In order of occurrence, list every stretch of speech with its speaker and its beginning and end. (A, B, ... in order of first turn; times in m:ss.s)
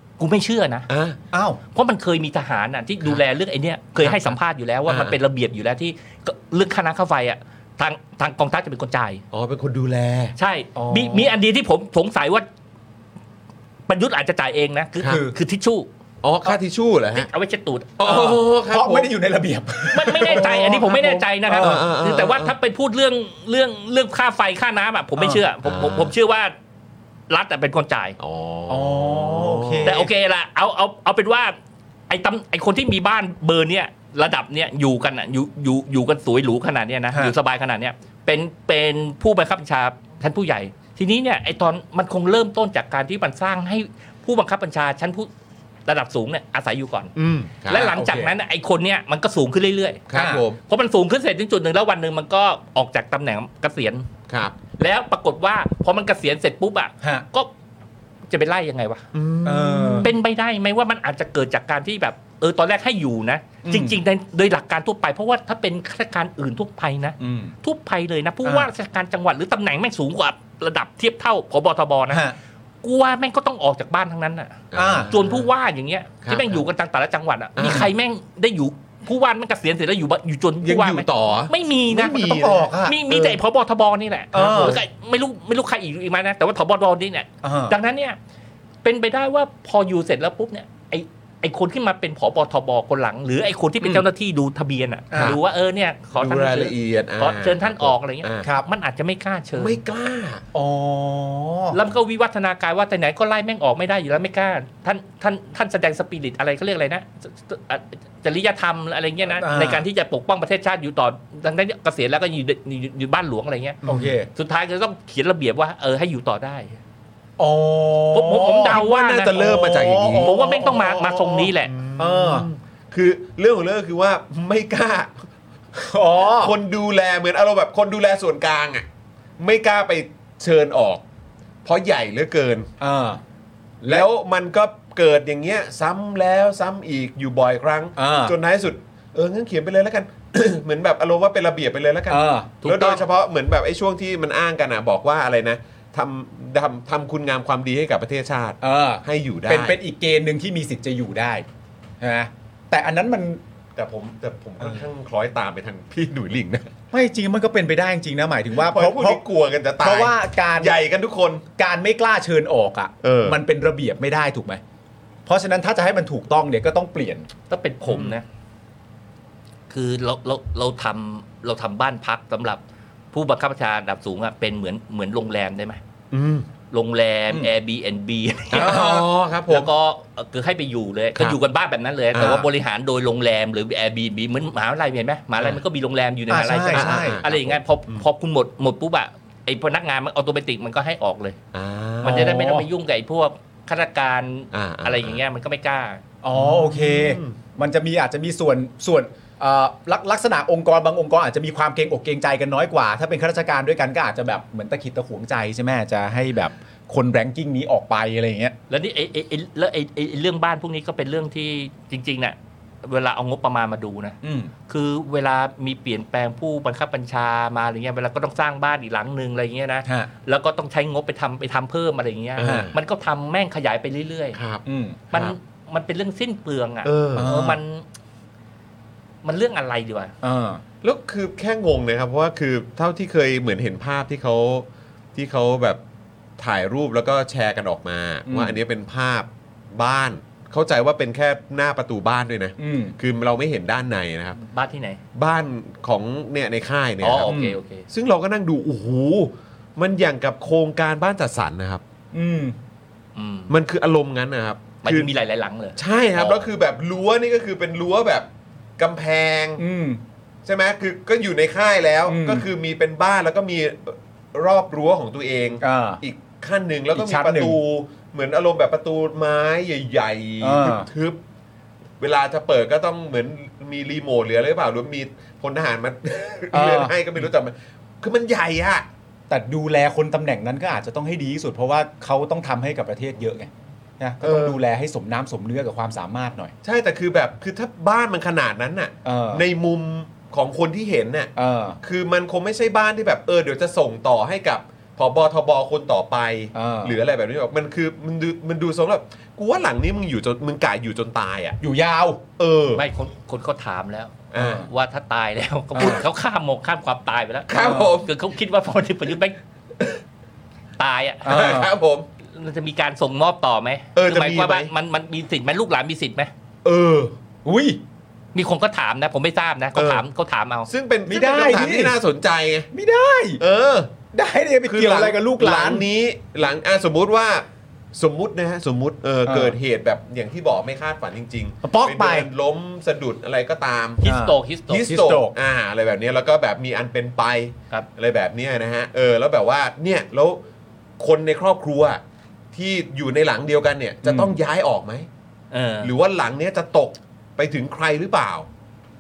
0:00.2-0:00.9 A
0:00.9-0:01.2 B
0:01.3-0:01.6 C
0:01.7-0:09.2 A
0:04.0-0:04.4 B
0:04.9-0:05.2 B
0:09.3-0:10.4 B
0:10.4-0:12.5 A
0:10.8-0:11.3 C
0:13.9-0:15.9 A
0:15.0-0:15.3 C
0:16.2-0:17.3 B
0:17.2-0:18.0 A
0:18.0-0:19.1 B
0:18.0-0:21.8 C
0:19.9-0:26.5 A
0:21.5-0:22.5 B
0:25.6-0:26.1 B
0:27.3-0:28.2 A
0:28.2-0:30.0 B
0:28.7-0:30.1 C
0:29.8-0:31.6 A
0:32.1-0:45.3 A
0:45.9-0:47.1 A
0:47.2-0:47.9 B
0:47.7-0:50.1 A
0:47.7-0:48.3 C
0:50.1-0:50.6 B
0:50.1-0:50.4 C
0:50.7-0:54.1 A
0:54.3-0:54.6 B
0:54.8-0:57.5 A
0:58.3-0:59.0 A
0:59.1-1:00.1 B
0:59.4-1:00.1 C
1:00.0-1:12.2 A
1:03.6-1:04.0 C
1:07.2-1:07.5 C
1:08.4-1:08.7 C
1:12.1-1:12.4 C
1:12.8-1:28.2 A
1:14.7-1:15.5 B
1:14.7-1:15.1 C
1:16.2-1:16.6 B
1:17.6-1:17.9 B
1:20.6-1:23.4 B
1:22.0-1:23.0 C
1:24.3-1:24.8 C
1:27.4-1:27.8 C
1:28.8-1:39.8 A
1:35.1-1:35.4 C
1:36.2-1:38.4 B
1:39.6-1:40.4 B
1:40.5-1:41.8 C
1:41.7-1:53.8 A
1:49.4-1:49.8 C
1:53.8-1:54.1 B
1:53.9-1:54.3 C
1:54.4-1:56.8 A
1:57.4-1:58.8 C
1:58.1-2:01.7 A
1:58.7-2:00.8 B
1:59.4-2:01.4 C
2:01.4-2:05.2 B
2:02.0-2:02.5 C
2:05.7-2:06.5 C
2:06.2-2:08.8 B
2:09.4-2:11.0 B
2:11.6-2:12.7 B
2:12.8-2:13.2 C
2:13.9-2:29.8 B
2:18.0-2:18.3 C
2:22.1-2:22.6 C
2:22.6-2:23.0 A
2:28.6-2:31.4 C
2:32.0-2:33.4 C
2:33.8-2:36.7 B
2:36.9-2:39.2 C
2:38.6-2:41.4 B
2:39.8-2:40.8 C
2:41.6-2:44.6 C
2:43.0-2:43.4 B
2:45.3-2:47.3 C
2:47.5-2:48.2 A
2:47.9-2:48.2 B
2:49.7-2:52.6 A
2:53.1-2:55.8 A
2:56.1-2:56.5 B
2:56.7-2:58.9 A
2:58.5-2:59.7 B
2:58.5-2:59.1 C
2:59.5-3:11.4 A
3:02.1-3:02.4 B
3:02.2-3:02.4 C
3:06.3-3:07.2 C
3:06.7-3:08.0 B
3:11.5-3:12.3 B
3:12.0-3:16.0 A
3:12.0-3:12.7 C
3:14.5-3:15.2 B
3:16.2-3:28.6 C
3:16.3-3:17.4 B
3:28.7-3:34.2 A
3:34.2-3:34.5 C
3:34.7-3:44.4 A
3:39.8-3:40.1 C
3:42.4-3:42.7 B
3:42.4-3:42.7 C
3:44.4-3:45.4 B
3:44.6-3:45.0 C
3:45.1-3:47.8 A
3:46.8-3:47.4 B
3:47.2-3:47.6 C
3:49.2-3:50.1 A
3:50.2-3:50.6 C
3:50.8-3:55.8 B
3:56.4-4:04.4 B
3:58.3-3:58.6 C
4:02.6-4:03.0 C
4:04.4-4:05.0 A
4:05.2-4:07.4 B
4:07.0-4:07.9 A
4:07.3-4:07.6 C
4:07.9-4:11.8 B
4:12.1-4:12.6 C
4:13.2-4:13.5 A
4:13.5-4:15.1 B
4:14.8-4:16.4 A
4:15.8-4:18.3 B
4:18.8-4:19.6 B
4:19.6-4:20.0 C
4:20.4-4:31.2 B
4:22.1-4:22.5 C
4:25.6-4:26.0 C
4:26.9-4:27.6 C
4:30.4-4:30.9 C
4:32.0-4:38.9 B
4:36.5-4:37.0 C
4:39.3-4:46.5 C
4:44.2-4:44.6 B
4:46.6-5:01.6 B
4:49.0-4:49.4 C
4:51.4-4:51.8 C
4:56.5-4:57.0 C
5:01.6-5:02.2 C
5:02.4-5:02.8 B
5:02.8-5:09.4 A
5:04.3-5:04.7 B
5:04.4-5:04.7 C
5:05.8-5:06.0 C
5:07.5-5:08.1 B
5:07.6-5:07.9 C
5:10.8-5:11.6 A
5:11.2-5:11.7 C
5:11.3-5:12.1 B
5:12.3-5:16.3 A
5:14.0-5:14.7 B
5:16.6-5:17.1 B
5:17.4-5:17.8 C
5:18.3-5:20.7 A
5:19.8-5:20.0 B
5:20.7-5:22.7 B
5:21.1-5:22.0 C
5:22.7-5:23.4 C
5:23.4-5:23.9 B
5:24.1-5:25.8 C
5:24.7-5:34.0 B
5:29.2-5:29.6 C
5:31.6-5:32.3 C
5:34.0-5:34.9 A
5:34.0-5:35.4 C
5:34.7-5:40.4 B
5:41.0-5:42.0 B
5:42.5-5:45.1 B
5:44.0-5:44.4 C
5:45.5-5:45.9 A
5:45.8-5:48.5 B